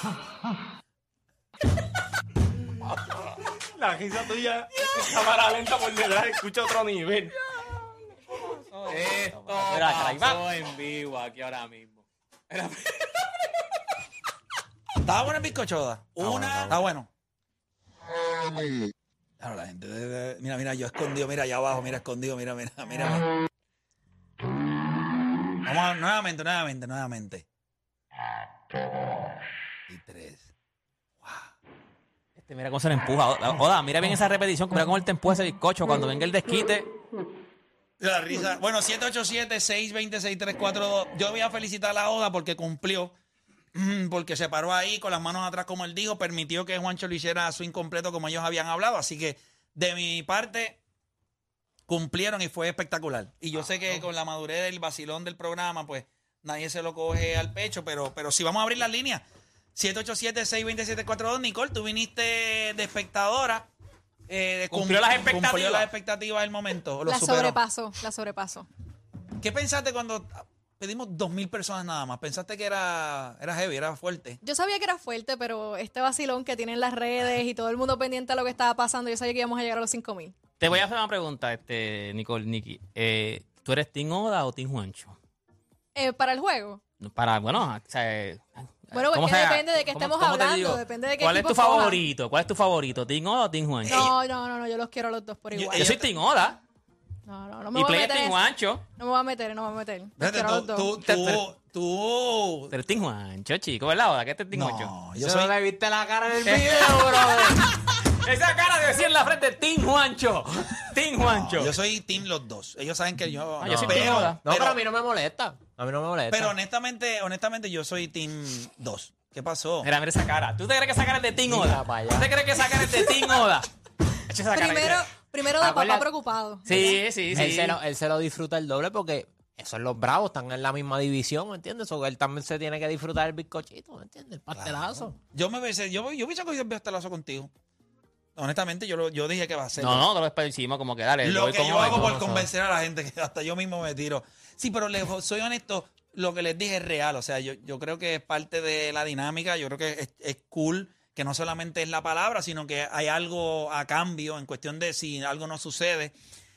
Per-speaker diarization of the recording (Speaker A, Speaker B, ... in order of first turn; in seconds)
Speaker A: 3.8-4.7, 5.7-7.3
Speaker B: 4.8-5.6, 8.8-13.2, 16.2-16.8, 32.4-36.9, 53.6-54.0, 64.7-65.9, 80.6-85.2, 87.0-94.2, 95.8-96.6, 97.7-98.8, 101.0-101.4, 102.7-104.9, 106.4-111.8, 113.6-114.4, 119.8-123.7, 124.3-125.0, 126.7-127.8, 139.8-142.2
Speaker C: 15.0-17.1, 19.4-23.3, 25.6-27.4, 29.9-30.5, 31.2-31.5, 38.0-43.1, 43.7-50.8, 51.9-59.2, 59.8-63.7, 64.3-67.6, 69.4-74.4, 95.5-96.1, 100.2-102.7, 104.5-105.5, 111.2-114.8, 116.3-119.9, 134.5-137.5, 138.4-140.1, 141.2-156.2
Speaker D: 67.0-68.7, 74.4-80.3, 85.9-86.8, 88.9-92.0, 93.8-96.0, 97.3-98.5, 99.0-101.0, 124.5-127.0
Speaker E: 105.2-107.6, 113.9-116.5, 121.5-122.3, 125.6-126.1, 126.7-135.2, 141.9-142.5